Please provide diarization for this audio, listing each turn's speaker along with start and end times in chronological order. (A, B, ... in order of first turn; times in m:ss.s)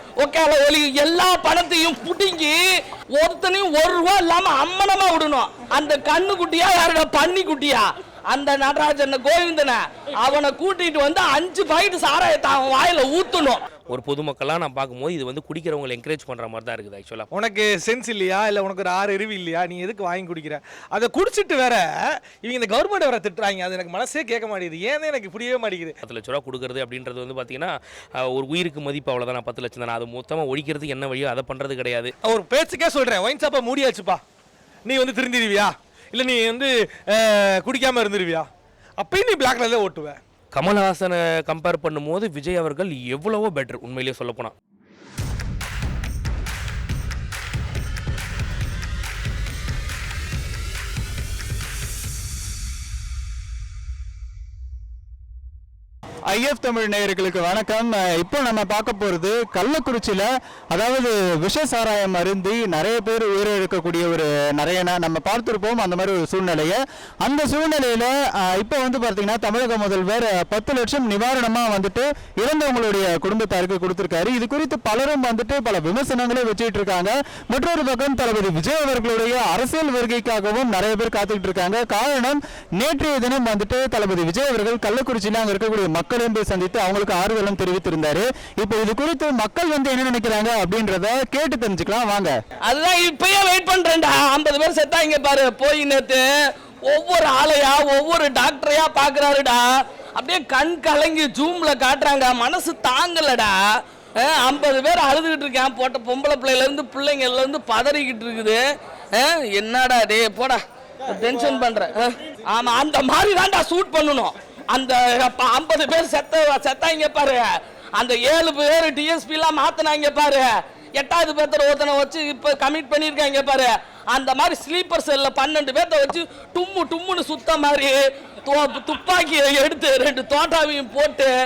0:00.2-0:02.6 A
0:03.1-0:13.6 A
0:13.9-0:17.3 B
0:17.3-0:26.0 C
0:26.0-0:32.1 B
0:32.2-0:34.2 C
0:34.8-0:38.5 C
0:39.0-0:40.2 C
0:40.5-0:44.5 B
0:56.3-1:32.3 D
1:32.6-1:36.2 A
1:36.8-1:43.6 A
1:44.2-1:48.6 A
1:49.1-2:11.3 A